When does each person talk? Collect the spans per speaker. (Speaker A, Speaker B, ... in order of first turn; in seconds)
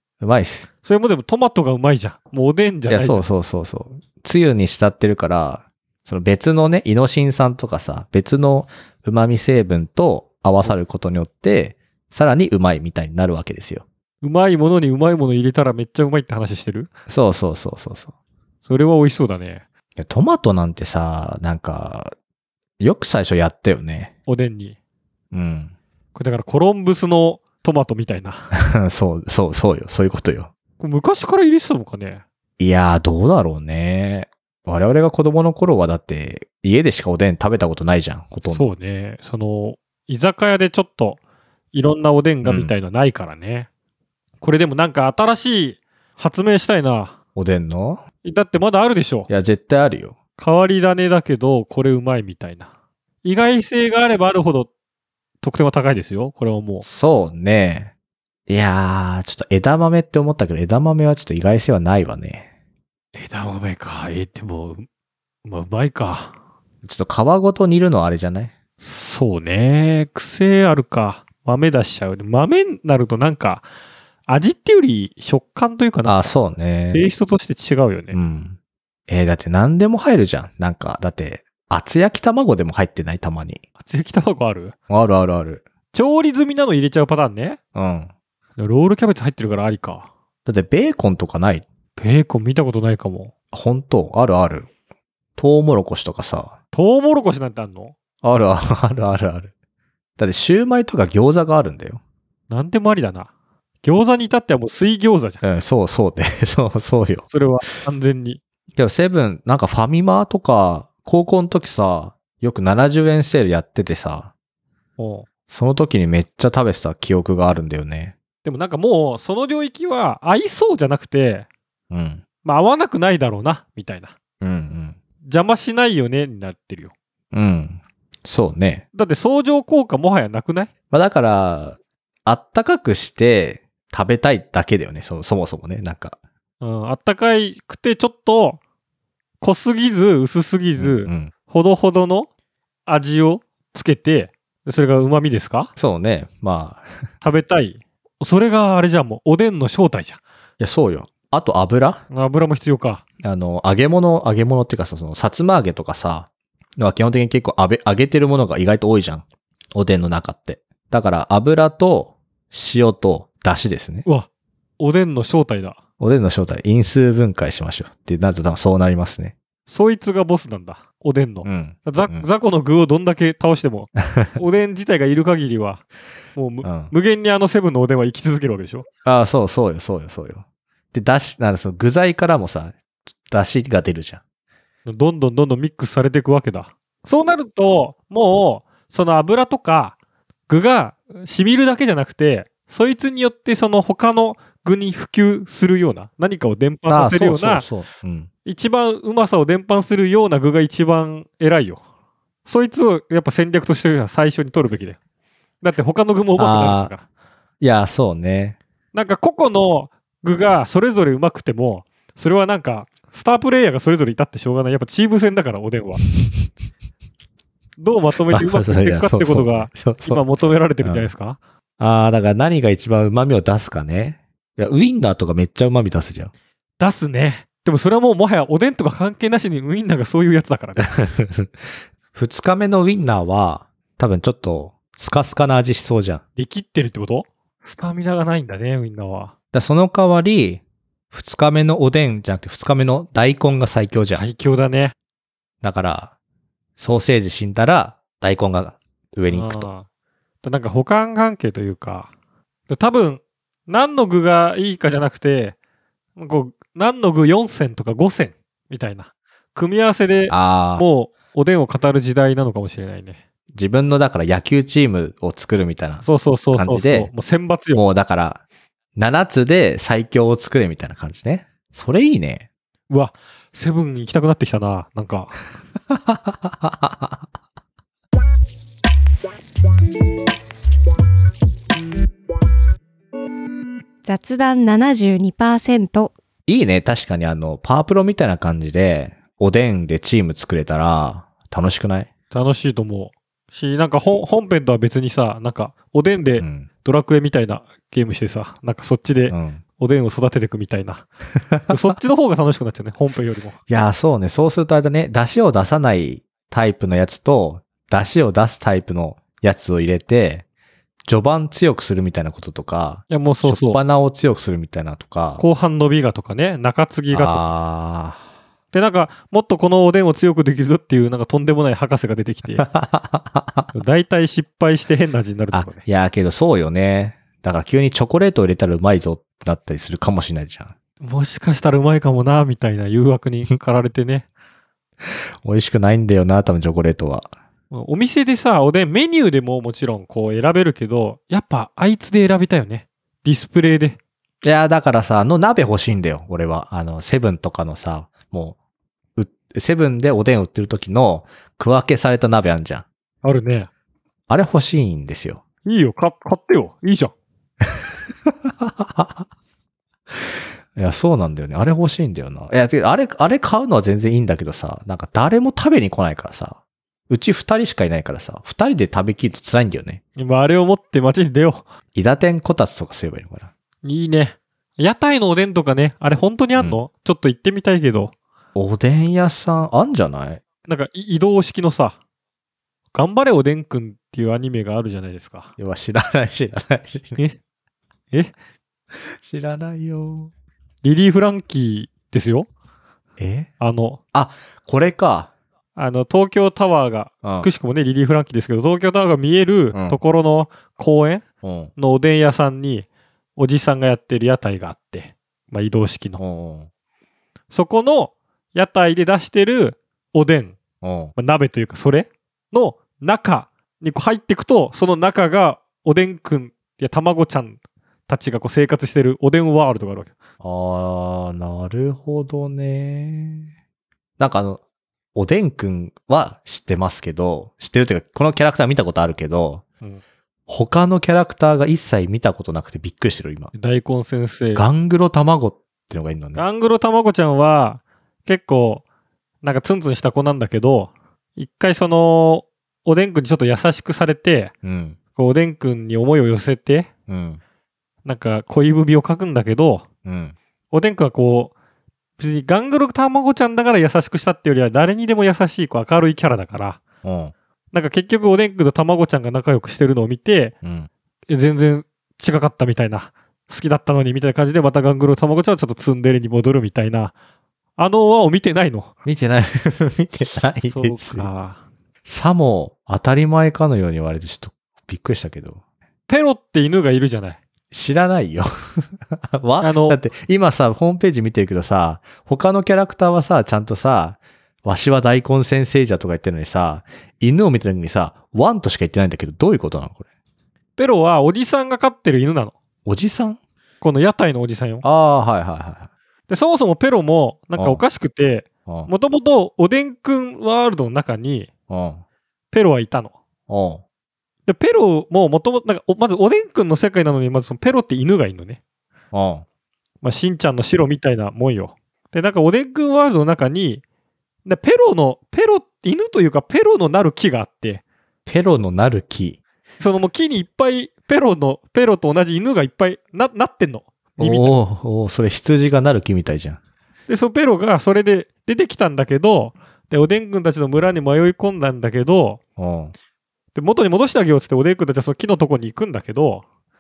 Speaker A: 0.2-0.7, 2.9-13.8, 17.1-18.1, 20.0-22.1, 22.8-24.1, 25.3-25.7, 28.6-30.5, 32.6-38.6, 42.4-42.7, 47.3-48.0, 49.3-50.1, 56.8-57.9, 58.5-62.5, 66.8-68.5, 76.0-77.1, 78.1-78.6, 79.1-83.6, 84.9-85.7, 87.7-88.1, 90.5-91.7, 93.5-94.7, 95.4-96.5, 98.2-99.5, 100.2-102.0, 105.4-107.3, 108.8-114.3, 115.5-118.1, 121.9-122.2, 124.4-125.0, 127.3-128.8, 130.9-136.2, 140.8-141.3, 145.8-146.8, 150.6-152.0, 153.2-164.1, 166.0-169.3, 171.4-172.3, 176.6-176.9, 179.0-182.8, 183.3-184.2, 196.9-198.3, 206.3-206.9, 207.6-208.6, 216.0-216.5, 218.3-220.2, 220.8-221.1, 221.8-226.3, 230.8-236.2, 239.5-244.2, 245.6-246.1, 246.8-249.7, 260.3-260.8, 263.5-267.1, 267.7-268.4, 268.9-272.5, 275.9-277.2, 286.4-292.1, 296.4-296.7, 299.3-299.6, 301.5-301.8, 303.7-310.4, 311.1-315.4, 317.1-318.2, 322.6-323.7, 325.5-330.7, 335.4-337.3, 344.4-348.6, 349.1-352.8, 354.3-355.4, 357.7-359.2, 360.1-370.0, 371.9-373.5, 378.5-380.4, 385.6-387.2, 388.9-390.3, 393.2-393.5, 394.1-395.3, 397.2-397.5, 399.7-400.0, 401.4-401.7, 406.2-406.7, 410.8-411.1, 420.4-423.5, 424.2-424.6, 425.1-429.6, 430.5-433.5, 434.5-436.4, 444.6-445.0, 447.1-447.4, 450.1-450.4, 457.0-457.3, 460.6-460.9, 469.0-471.3, 472.0-475.6, 477.7-490.0, 492.8-493.4, 494.8-495.9, 497.6-497.8, 501.7-502.0, 503.5-503.8, 509.1-509.4, 518.2-519.4, 524.2-526.6, 532.6-532.9
Speaker B: 0.8-3.2, 14.2-16.9, 18.6-19.6, 24.2-24.8, 26.1-28.5, 30.8-32.2, 38.5-41.2, 41.7-43.7, 44.4-47.1, 48.2-49.3, 50.4-52.7, 53.2-54.7, 55.4-56.9, 63.1-64.9, 65.4-66.3, 68.8-73.7, 74.3-76.3, 76.9-78.2, 83.8-84.7, 85.9-87.6, 88.6-90.1, 92.0-93.3, 96.7-97.9, 102.5-103.3, 103.8-105.4, 107.3-108.4, 115.0-115.3, 118.4-121.5, 122.4-124.1, 125.2-126.9, 128.9-130.7, 136.6-138.6, 139.4-142.3, 142.8-145.7, 147.2-150.2, 152.1-153.0, 164.8-165.8, 169.7-175.8, 176.3-178.9, 184.8-190.0, 190.5-197.7, 198.4-201.8, 202.4-205.0, 205.6-207.0, 208.9-216.0, 217.8-221.4, 226.8-230.9, 236.4-239.3, 244.1-244.9, 249.3-249.8, 250.4-252.1, 252.7-255.6, 256.2-263.2, 266.0-267.8, 272.9-275.3, 292.3-301.1, 301.7-303.6, 313.1-313.8, 315.4-317.4, 318.7-322.6, 323.7-325.8, 331.0-334.3, 337.7-344.0, 353.2-353.7, 355.6-357.1, 370.2-371.7, 373.8-378.1, 380.7-382.0, 382.9-385.5, 390.8-392.5, 393.6-394.0, 395.8-401.2, 401.8-406.2, 407.5-410.6, 411.1-420.1, 433.5-434.7, 436.3-438.8, 439.4-444.5, 445.1-446.9, 448.0-449.9, 450.7-451.5, 452.2-456.8, 457.7-460.5, 461.3-467.1, 467.8-468.9, 470.7-471.6, 476.1-477.4, 479.6-480.0, 490.8-492.5, 493.8-494.9, 496.3-501.5, 502.5-503.1, 504.4-508.6, 510.0-513.8, 514.4-517.8, 519.8-524.6, 527.1-532.4, 533.5-536.4
Speaker C: 284.0-286.1